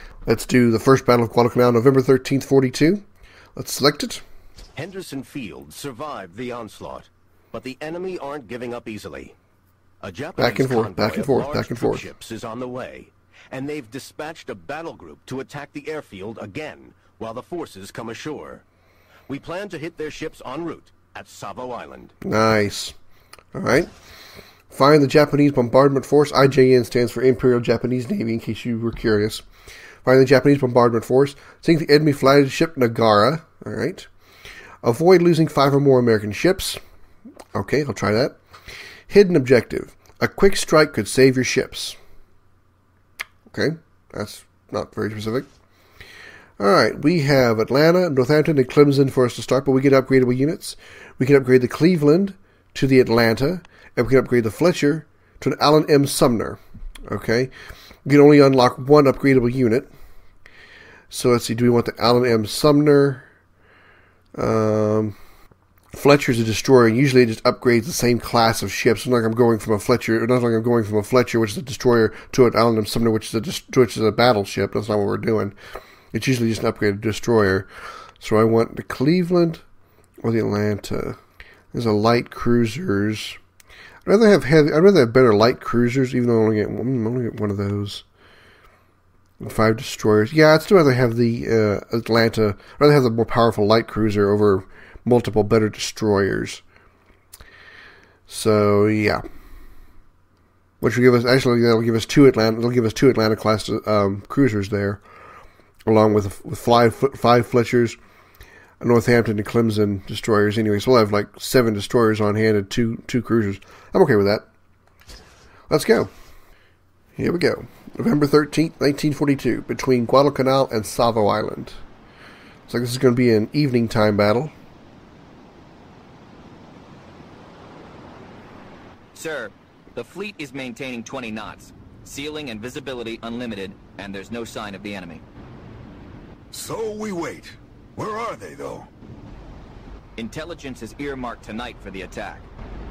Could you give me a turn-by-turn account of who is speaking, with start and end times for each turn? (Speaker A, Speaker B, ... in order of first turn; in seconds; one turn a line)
Speaker A: 0.2-3.0
Speaker A: 3.5-4.2
Speaker B: 4.8-9.3
Speaker B: 10.0-18.6
Speaker A: 10.4-12.1
Speaker B: 19.3-22.1
Speaker A: 22.2-22.9
Speaker A: 23.5-23.9
Speaker A: 24.7-29.4
Speaker A: 30.0-34.1
Speaker A: 34.8-36.8
Speaker A: 37.5-38.4
Speaker A: 39.1-42.0
Speaker A: 43.5-45.5
Speaker A: 46.6-57.5
Speaker A: 58.0-59.9
Speaker A: 61.1-63.2
Speaker A: 64.3-65.2
Speaker A: 65.9-75.5
Speaker A: 76.1-77.7
Speaker A: 78.2-79.6
Speaker A: 80.2-81.2
Speaker A: 81.7-83.4
Speaker A: 84.0-88.0
Speaker A: 89.4-96.6
Speaker A: 98.3-99.2
Speaker A: 100.8-105.0
Speaker A: 105.8-108.0
Speaker A: 108.8-114.5
Speaker A: 115.7-116.1
Speaker A: 117.2-121.8
Speaker A: 122.7-124.5
Speaker C: 129.1-135.2
Speaker D: 136.5-138.9
Speaker C: 140.2-142.5